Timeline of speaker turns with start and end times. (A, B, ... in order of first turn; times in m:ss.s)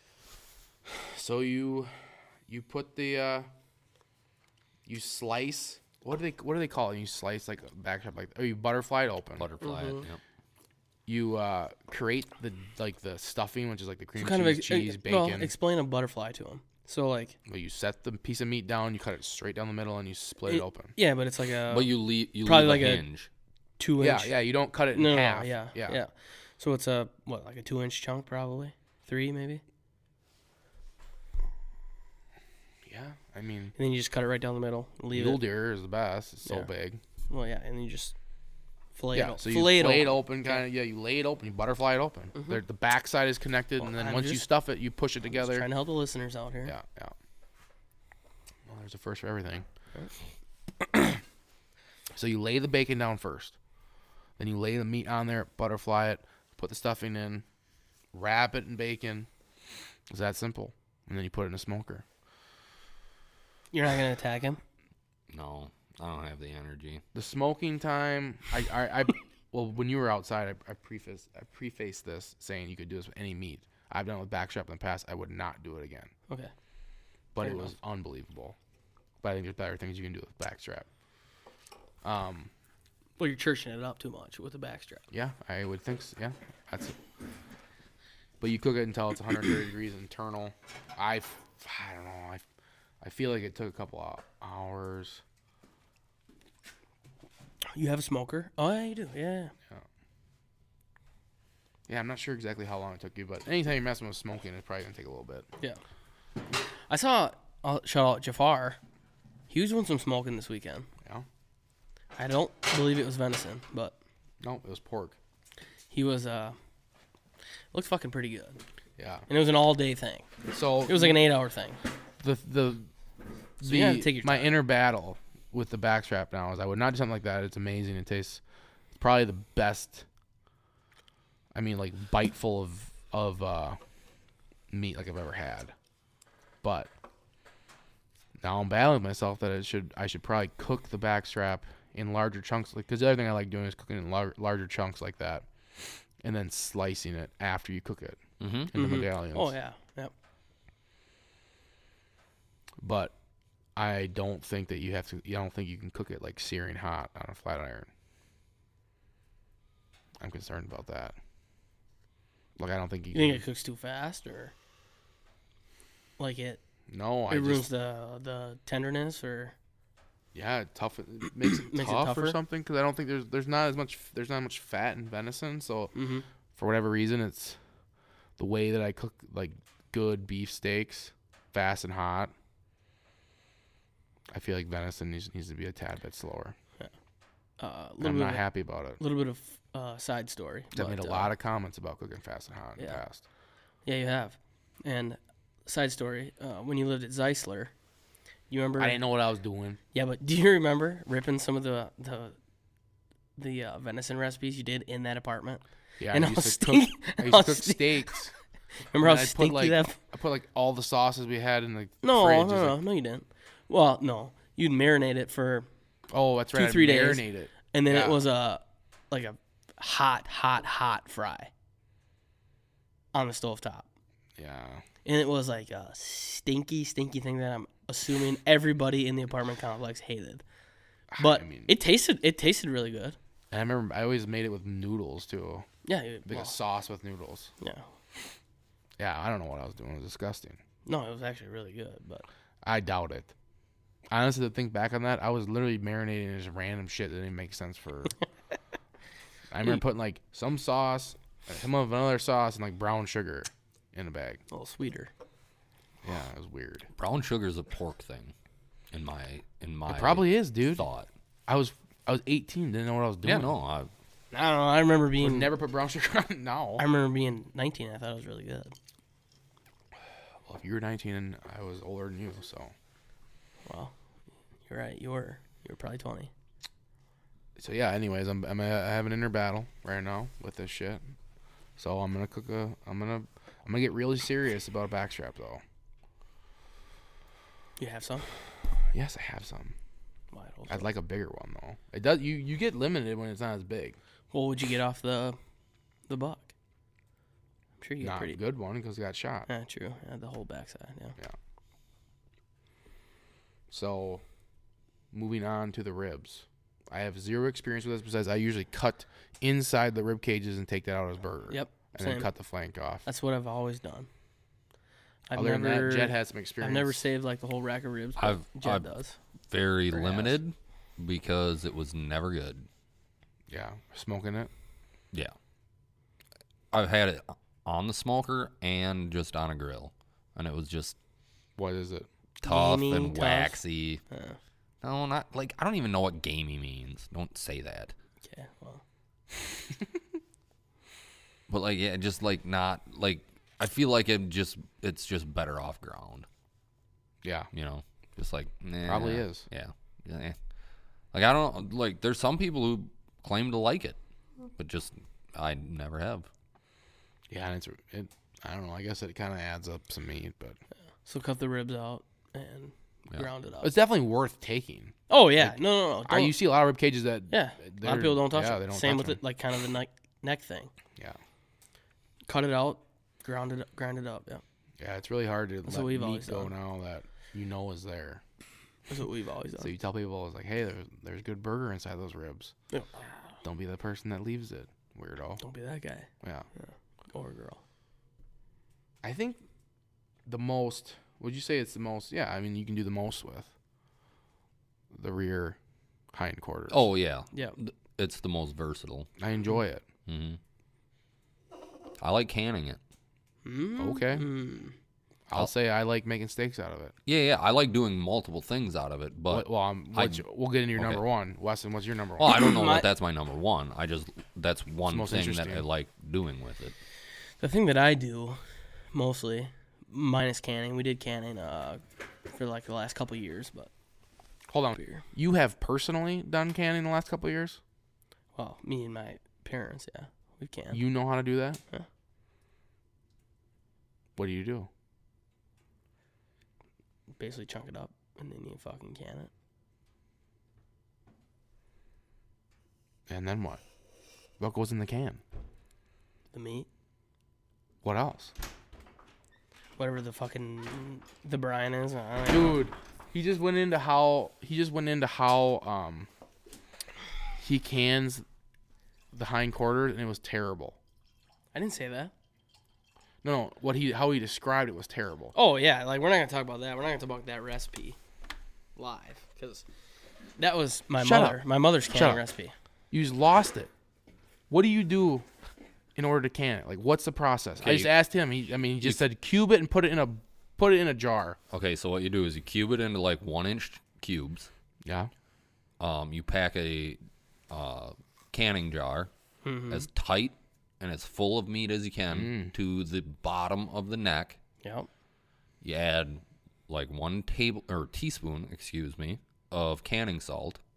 0:00.8-0:01.9 A
0:02.5-0:03.5 A
0:04.8-0:09.5 A
0:09.4-0:10.2 B
0:09.6-0:10.0 C
0:11.1-0:15.5 A
0:14.2-0:17.4 C
0:17.4-0:20.9 A
0:20.5-0:23.0 C
0:21.7-0:23.3 B
0:23.8-0:24.4 C
0:24.0-0:26.0 A
0:24.9-0:29.6 C
0:32.8-0:33.7 A
0:33.8-0:35.4 C
0:35.1-0:37.0 A
0:37.3-0:38.1 C
0:38.9-0:40.6 C
0:39.1-0:45.7 A
0:43.8-0:44.5 C
0:45.3-0:46.7 C
0:46.6-0:47.1 A
0:48.7-0:49.6 A
0:50.8-0:51.2 A
0:52.1-0:53.6 A
0:54.4-0:57.4 A
0:58.1-0:59.3 A
1:00.1-1:02.0 A
1:03.7-1:04.6 C
1:05.3-1:07.0 B
1:07.1-1:16.1 A
1:17.3-1:18.6 A
1:17.4-1:17.7 C
1:19.2-1:20.9 A
1:22.0-1:22.5 A
1:23.2-1:25.0 C
1:25.1-1:27.0 A
1:28.4-1:32.4 A
1:33.0-1:35.2 A
1:37.7-1:39.5 C
1:41.9-1:45.5 A
1:46.9-1:48.8 C
1:49.5-1:50.9 C
1:52.2-1:53.9 C
1:54.4-1:55.2 A
1:55.9-1:56.6 C
1:57.7-1:58.6 C
1:59.0-1:59.3 A
1:59.3-2:00.3 C
2:00.5-2:01.2 A
2:00.8-2:01.8 C
2:02.2-2:02.9 A
2:03.6-2:08.4 A
2:03.6-2:04.6 C
2:08.9-2:10.0 A
2:11.5-2:13.8 A
2:14.7-2:15.7 A
2:16.6-2:16.9 A
2:18.4-2:25.5 A
2:26.2-2:28.2 A
2:28.4-2:28.7 B
2:28.7-2:29.5 A
2:28.7-2:30.1 C
2:32.8-2:33.1 A
2:33.8-2:37.9 A
2:40.2-2:41.2 A
2:42.6-2:43.4 A
2:43.1-2:44.5 C
2:46.2-2:46.6 C
2:46.9-2:47.7 A
2:47.3-2:49.5 C
2:50.3-2:55.9 A
2:51.6-2:52.4 C
2:55.9-2:56.2 C
2:56.6-2:57.6 A
2:58.4-3:02.3 A
3:04.3-3:06.5 A
3:07.6-3:08.4 C
3:08.0-3:09.0 A
3:09.0-3:11.3 C
3:10.7-3:13.2 A
3:13.8-3:17.7 C
3:18.5-3:19.0 C
3:18.8-3:19.8 A
3:19.9-3:22.4 C
3:23.4-3:28.3 C
3:26.0-3:28.3 A
3:28.9-3:30.0 C
3:29.0-3:32.8 A
3:32.0-3:35.7 C
3:36.1-3:38.2 A
3:36.5-3:41.5 C
3:43.1-3:43.9 C
3:44.4-3:44.8 A
3:45.0-3:50.4 C
3:51.1-3:51.7 A
3:51.2-3:53.2 C
3:53.5-3:55.6 A
3:55.8-3:56.6 C
3:56.2-3:57.5 A
3:57.6-3:57.8 C
3:59.0-4:00.6 A
4:00.8-4:02.2 C
4:02.6-4:03.3 A
4:04.1-4:08.1 A
4:09.5-4:14.4 A
4:14.5-4:15.1 C
4:16.0-4:16.9 A
4:17.0-4:18.3 B
4:18.9-4:21.1 B
4:19.9-4:20.8 A
4:21.5-4:23.5 A
4:23.2-4:23.9 B
4:24.3-4:25.5 C
4:25.2-4:26.8 A
4:26.8-4:28.7 C
4:30.4-4:32.7 A
4:33.6-4:33.9 C
4:34.7-4:36.3 C
4:37.6-4:41.0 A
4:41.8-4:45.6 A
4:47.8-4:48.3 C
4:48.9-4:49.7 A
4:50.3-4:50.9 C
4:50.7-4:54.0 A
4:54.3-4:55.4 C
4:56.1-4:56.5 C
4:57.8-4:58.4 C
4:58.0-4:59.5 A
4:59.5-5:01.2 C
5:03.7-5:04.2 A
5:05.1-5:13.0 A
5:11.5-5:12.3 C
5:13.0-5:14.1 C
5:15.3-5:19.2 C
5:15.3-5:17.1 A
5:18.2-5:18.9 B
5:19.5-5:22.7 B
5:19.9-5:20.3 C
5:23.5-5:24.5 A
5:26.7-5:31.0 B
5:31.6-5:32.1 A
5:32.4-5:34.0 B
5:32.4-5:33.6 C
5:34.1-5:34.4 C
5:34.8-5:37.9 B
5:38.2-5:38.8 C
5:41.5-5:46.3 B
5:47.2-5:47.5 A
5:47.5-5:50.4 B
5:48.8-5:49.4 A
5:51.1-5:54.0 B
5:54.6-5:56.3 B
5:57.3-6:00.6 A
6:01.0-6:03.7 C
6:03.6-6:09.2 A
6:05.1-6:06.4 C
6:07.3-6:10.7 C
6:12.3-6:14.4 C
6:14.8-6:18.2 A
6:15.6-6:16.5 C
6:18.9-6:19.7 C
6:19.6-6:22.5 A
6:22.7-6:23.0 C
6:23.4-6:25.4 A
6:25.4-6:26.1 C
6:26.6-6:27.6 C
6:29.0-6:29.4 A
6:30.2-6:33.5 A
6:34.9-6:35.6 A
6:36.1-6:36.8 A
6:36.7-6:39.1 B
6:39.2-6:39.8 A
6:40.0-6:40.4 B
6:42.0-6:42.8 B
6:43.4-6:44.7 C
6:43.8-6:44.2 A
6:45.3-6:46.9 A
6:47.0-6:50.2 B
6:49.3-6:52.3 A
6:50.8-6:51.0 B
6:52.2-6:56.8 B
6:52.2-6:52.9 C
6:54.9-6:55.6 A
6:57.4-6:58.4 C
6:58.9-7:03.7 C
7:04.5-7:07.6 A
7:04.8-7:05.0 C
7:08.4-7:10.8 C
7:10.7-7:11.6 A
7:14.2-7:14.7 A
7:17.2-7:19.3 C
7:23.1-7:23.6 A
7:24.4-7:25.2 A
7:26.3-7:26.7 C
7:27.8-7:28.3 A
7:29.8-7:32.6 C
7:32.3-7:36.1 A
7:37.4-7:38.2 A
7:39.1-7:40.8 A
7:41.5-7:42.1 C
7:43.2-7:45.3 A
7:45.3-7:48.0 C
7:48.8-7:49.6 C
7:50.4-7:52.5 C
7:51.0-7:51.4 A
7:51.9-7:52.2 A
7:52.9-7:53.7 A
7:54.5-7:55.2 A
7:56.0-8:01.4 A
7:57.6-7:57.9 B
8:01.5-8:04.5 B
8:04.8-8:05.1 A
8:05.8-8:09.1 B
8:09.4-8:09.9 C
8:09.7-8:14.4 B
8:12.1-8:12.5 A
8:14.6-8:14.9 C
8:15.6-8:20.6 B